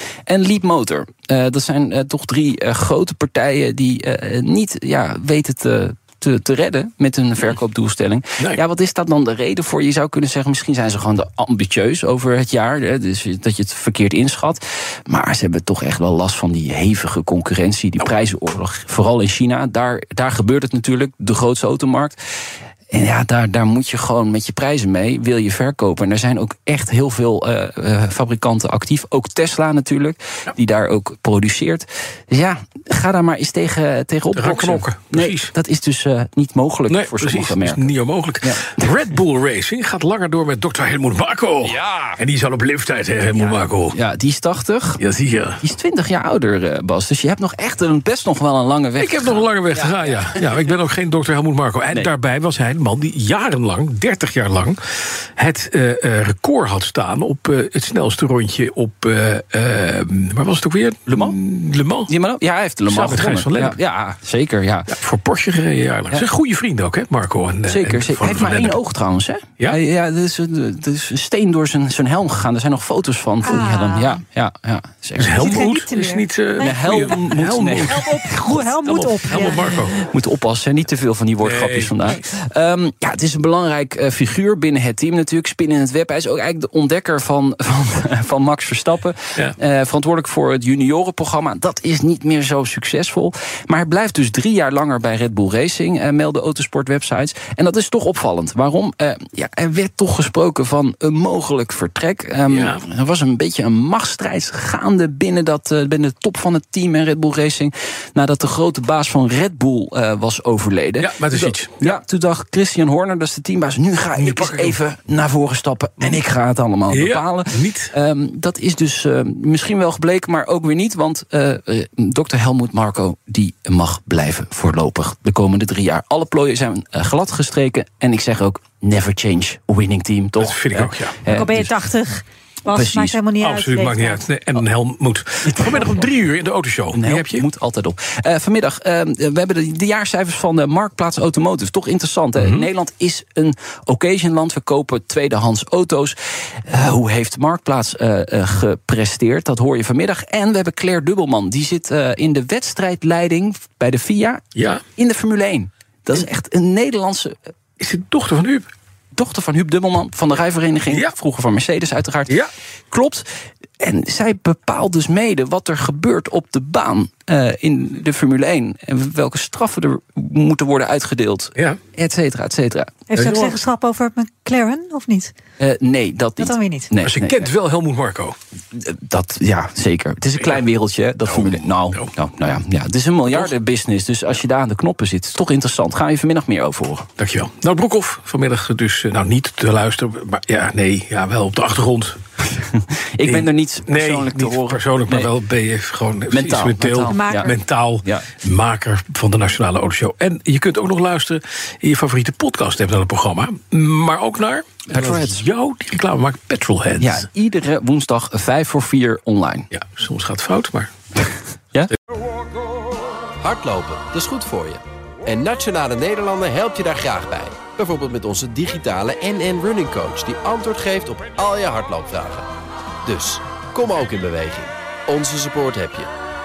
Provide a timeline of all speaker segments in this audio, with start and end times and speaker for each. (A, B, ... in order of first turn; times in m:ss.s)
0:00.3-0:22.2 A
0:22.9-0:37.9 A
0:34.3-0:35.5 B
0:36.9-0:44.0 B
0:38.4-0:38.8 A
0:41.6-0:42.2 A
0:43.3-0:45.0 A
0:45.0-0:45.6 B
0:45.6-0:50.4 A
0:49.0-1:02.1 B
1:01.1-1:01.4 A
1:02.1-1:05.0 A
1:02.9-1:03.8 B
1:04.9-1:08.8 B
1:07.7-1:15.6 A
1:13.4-1:14.2 C
1:15.2-1:20.0 B
1:15.3-1:17.1 C
1:16.6-1:18.6 A
1:17.9-1:19.8 C
1:19.8-2:11.8 A
1:21.4-1:22.2 B
1:42.5-1:42.8 B
1:51.0-1:51.9 B
1:54.2-1:54.8 B
1:56.9-1:57.9 B
2:10.4-2:11.2 B
2:11.3-2:14.2 C
2:12.7-2:13.2 A
2:13.4-2:17.4 B
2:15.4-2:15.9 A
2:16.9-2:34.4 A
2:22.4-2:22.6 B
2:34.6-2:34.8 B
2:35.0-2:37.3 A
2:37.8-2:38.7 B
2:39.1-2:43.3 A
2:43.8-2:53.0 A
2:53.1-2:55.3 C
2:53.1-2:53.6 B
2:55.6-2:57.5 A
2:56.4-2:56.9 C
2:57.0-2:58.4 B
2:58.7-3:07.1 A
3:00.4-3:00.6 B
3:01.2-3:02.1 B
3:07.2-3:12.2 B
3:12.4-3:15.3 A
3:13.2-3:27.3 B
3:16.3-3:18.3 A
3:17.0-3:17.6 C
3:24.9-3:25.4 A
3:27.0-3:29.7 A
3:29.7-3:30.9 B
3:33.4-3:42.5 D
3:43.0-3:46.1 D